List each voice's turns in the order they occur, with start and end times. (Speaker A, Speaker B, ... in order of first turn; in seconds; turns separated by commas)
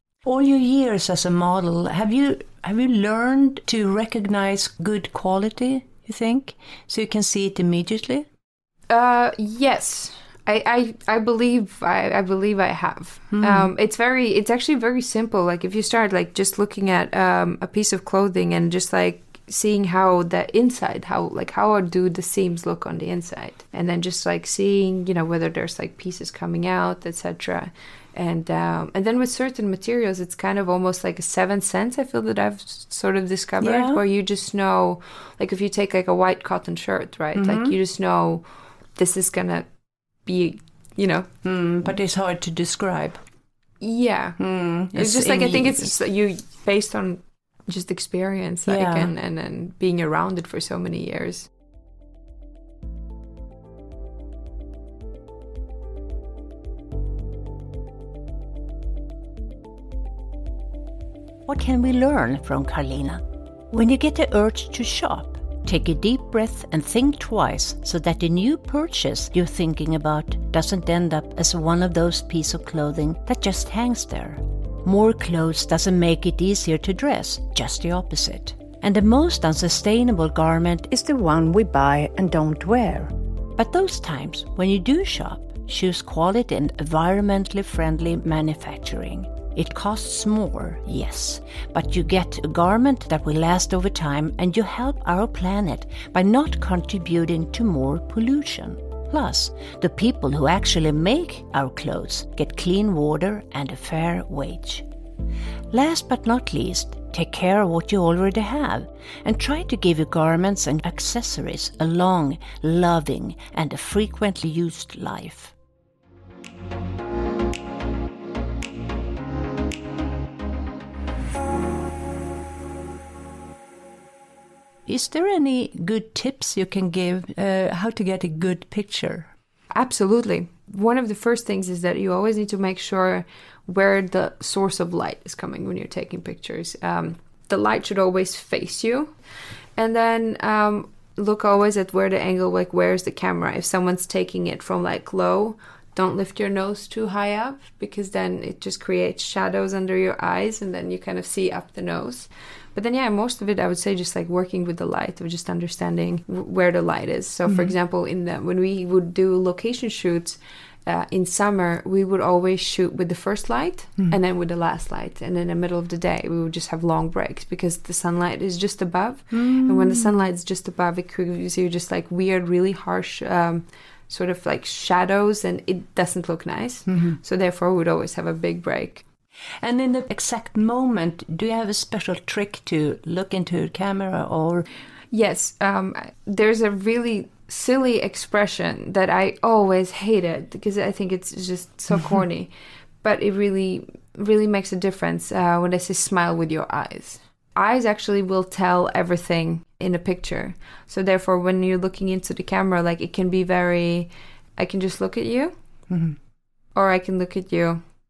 Speaker A: 0.2-8.3, Speaker B: 8.9-38.5, Speaker A: 13.3-13.7, Speaker A: 33.6-34.0, Speaker A: 37.4-37.8, Speaker B: 39.0-39.7, Speaker B: 40.3-41.3, Speaker A: 41.4-43.2, Speaker B: 43.8-44.4, Speaker A: 44.4-45.9, Speaker B: 44.9-51.5, Speaker A: 48.7-49.1, Speaker A: 61.5-104.9, Speaker A: 105.7-115.5, Speaker A: 124.9-129.3, Speaker B: 129.7-139.1, Speaker B: 139.8-179.0, Speaker A: 169.3-170.2, Speaker A: 176.9-177.2, Speaker A: 179.6-184.7, Speaker B: 185.1-192.5, Speaker B: 193.0-205.5, Speaker A: 205.9-206.2, Speaker B: 206.8-207.8